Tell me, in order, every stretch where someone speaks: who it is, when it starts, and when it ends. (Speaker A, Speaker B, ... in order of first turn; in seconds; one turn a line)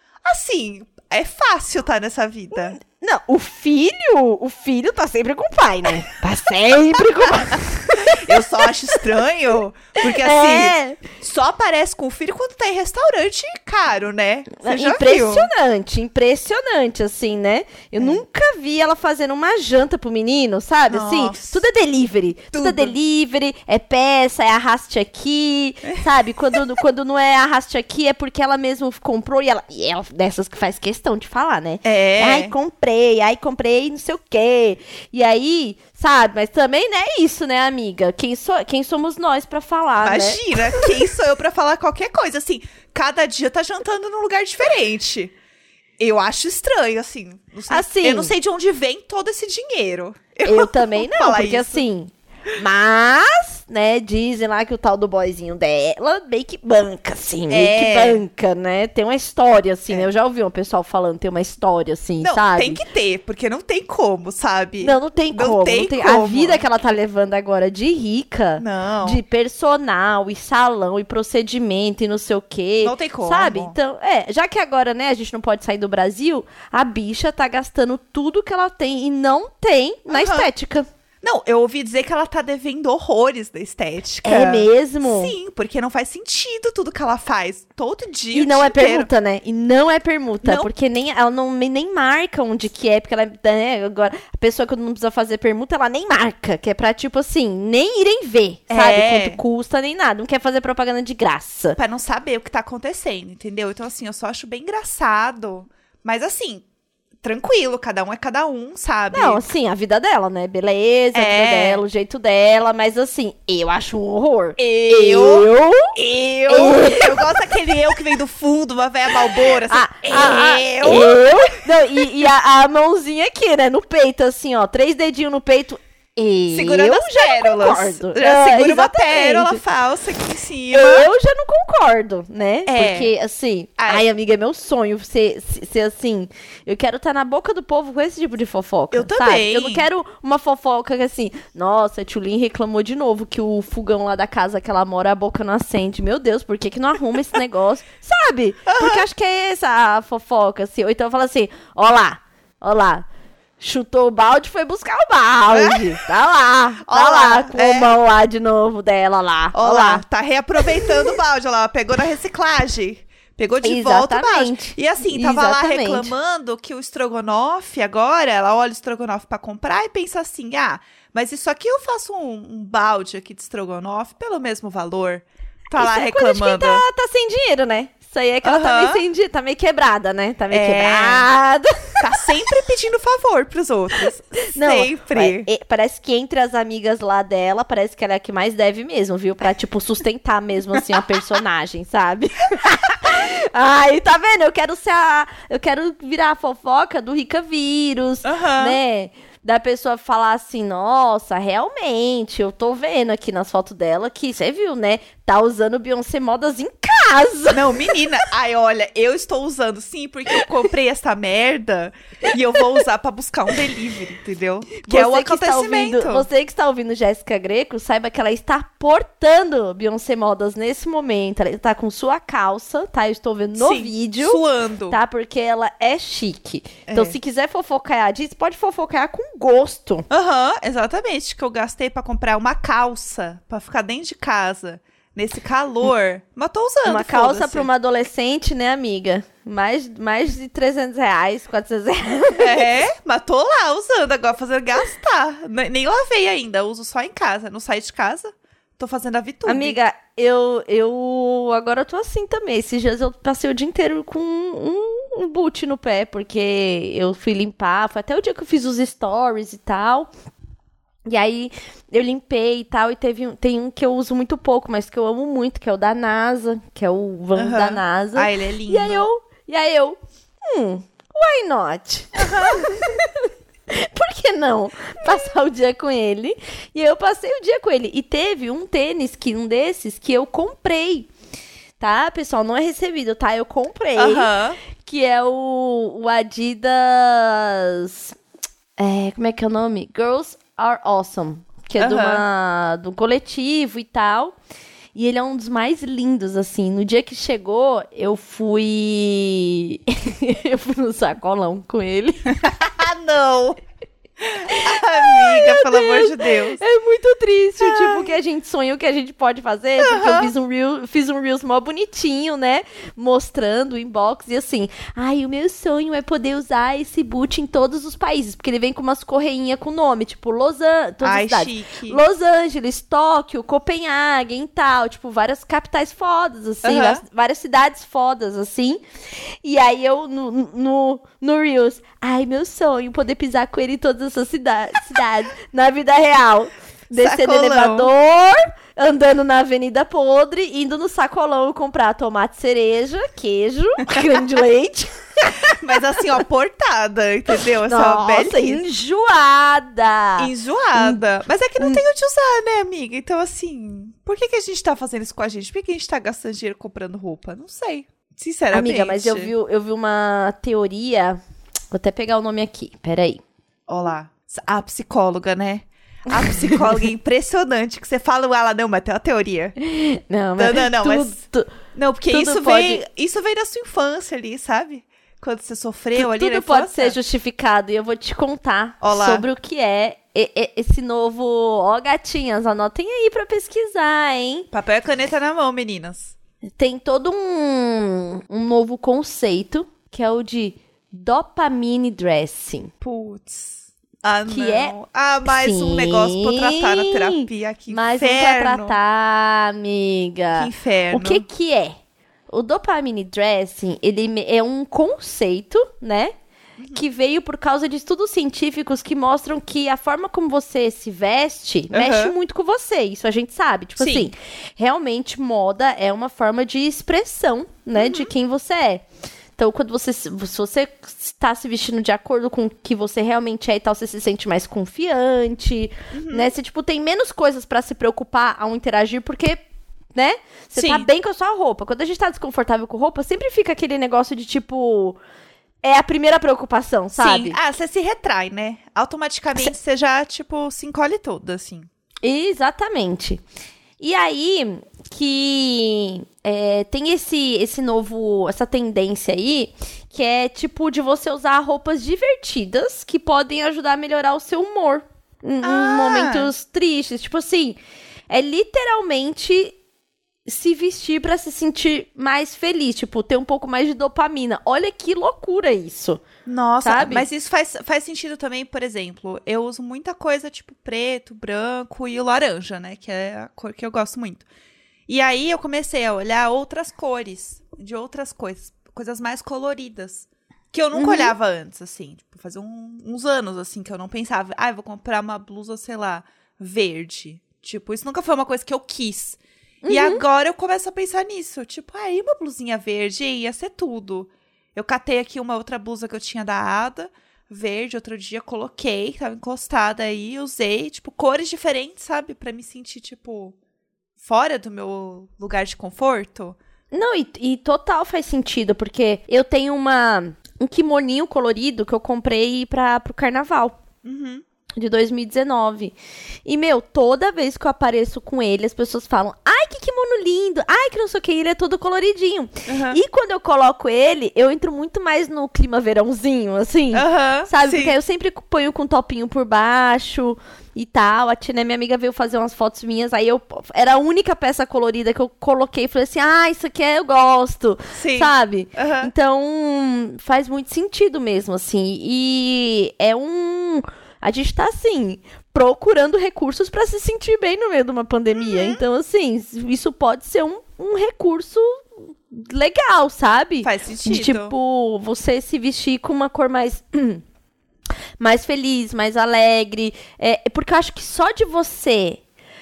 Speaker A: 0.2-2.8
Speaker B: 2.5-9.1
Speaker A: 7.2-15.5
Speaker B: 10.0-11.1
Speaker B: 14.6-40.9
Speaker A: 20.9-21.6
Speaker A: 22.5-22.9
Speaker A: 31.8-32.5
Speaker A: 40.0-45.3
Speaker A: 46.0-51.8
Speaker B: 47.7-48.3
Speaker B: 50.4-62.8
Speaker A: 57.5-58.2
Speaker A: 62.2-66.6
Speaker B: 64.8-80.9
Speaker A: 68.6-69.2
Speaker A: 72.8-73.8
Speaker A: 80.1-80.5
Speaker A: 81.2-89.1
Speaker B: 84.2-85.3
Speaker B: 88.3-101.8
Speaker A: 90.4-90.7
Speaker A: 98.7-99.4
Speaker A: 101.8-106.6
Speaker A: 107.2-109.4
Speaker B: 109.1-115.9
Speaker A: 111.1-111.8
Speaker A: 114.6-121.6
Speaker B: 116.5-117.3
Speaker B: 119.6-129.6
Speaker A: 126.5-131.1
Speaker B: 130.7-153.0
Speaker A: 132.7-133.1
Speaker A: 133.8-134.0
Speaker A: 138.9-139.9
Speaker A: 148.7-149.1
Speaker B: 153.6-160.0
Speaker A: 155.5-156.0
Speaker A: 156.8-157.9
Speaker A: 159.5-176.8
Speaker B: 163.6-166.1
Speaker B: 175.7-182.0
Speaker A: 178.4-179.0
Speaker A: 180.5-181.3
Speaker A: 182.0-185.5
Speaker B: 184.4-207.8
Speaker A: 198.2-198.8
Speaker A: 207.5-216.3
Speaker B: 214.8-230.1
Speaker A: 223.6-225.0
Speaker A: 226.9-227.2
Speaker A: 230.1-237.7
Speaker B: 236.8-242.8
Speaker A: 242.4-249.8
Speaker B: 249.4-260.1
Speaker B: 261.1-281.1
Speaker A: 267.3-269.0
Speaker A: 272.1-272.6
Speaker B: 281.8-284.3
Speaker A: 283.9-284.6
Speaker B: 284.8-288.1
Speaker B: 288.8-294.4
Speaker A: 291.8-292.2
Speaker B: 294.9-302.6
Speaker A: 302.4-303.6
Speaker A: 304.2-306.6
Speaker B: 304.4-328.8
Speaker A: 307.6-308.1
Speaker A: 309.8-310.3
Speaker A: 321.0-322.0
Speaker A: 326.6-327.0
Speaker B: 329.4-345.6
Speaker A: 336.9-337.9
Speaker A: 345.6-348.6
Speaker B: 347.6-351.0
Speaker A: 350.2-359.3
Speaker B: 358.5-361.2
Speaker B: 361.7-363.2
Speaker A: 363.7-369.5
Speaker B: 369.6-371.5
Speaker A: 370.4-371.2
Speaker A: 371.7-377.0
Speaker B: 372.1-372.8
Speaker B: 375.9-384.5
Speaker A: 378.8-379.2
Speaker A: 384.5-386.1
Speaker B: 386.6-392.7
Speaker A: 392.8-398.8
Speaker B: 394.3-401.8
Speaker A: 400.3-401.2
Speaker B: 402.3-406.1
Speaker A: 406.6-406.8
Speaker B: 406.7-418.8
Speaker A: 411.7-412.1
Speaker A: 413.8-414.1
Speaker A: 417.7-418.1
Speaker B: 419.4-429.4
Speaker A: 425.9-426.3
Speaker B: 429.9-435.0
Speaker A: 430.5-430.9
Speaker B: 435.6-437.4
Speaker A: 436.9-441.7
Speaker B: 442.0-443.2
Speaker B: 443.8-457.6
Speaker A: 455.4-456.3
Speaker B: 458.1-459.5
Speaker B: 460.3-466.0
Speaker A: 466.2-474.2
Speaker B: 466.6-467.1
Speaker A: 474.9-503.4
Speaker B: 480.7-481.1
Speaker B: 489.6-490.0
Speaker A: 504.0-506.4
Speaker B: 506.7-513.6
Speaker A: 513.8-514.2
Speaker B: 514.6-515.7
Speaker B: 516.2-557.0
Speaker A: 522.5-522.8
Speaker A: 526.7-527.7
Speaker A: 537.7-538.9
Speaker A: 548.1-548.6
Speaker A: 553.4-554.3
Speaker B: 558.0-562.0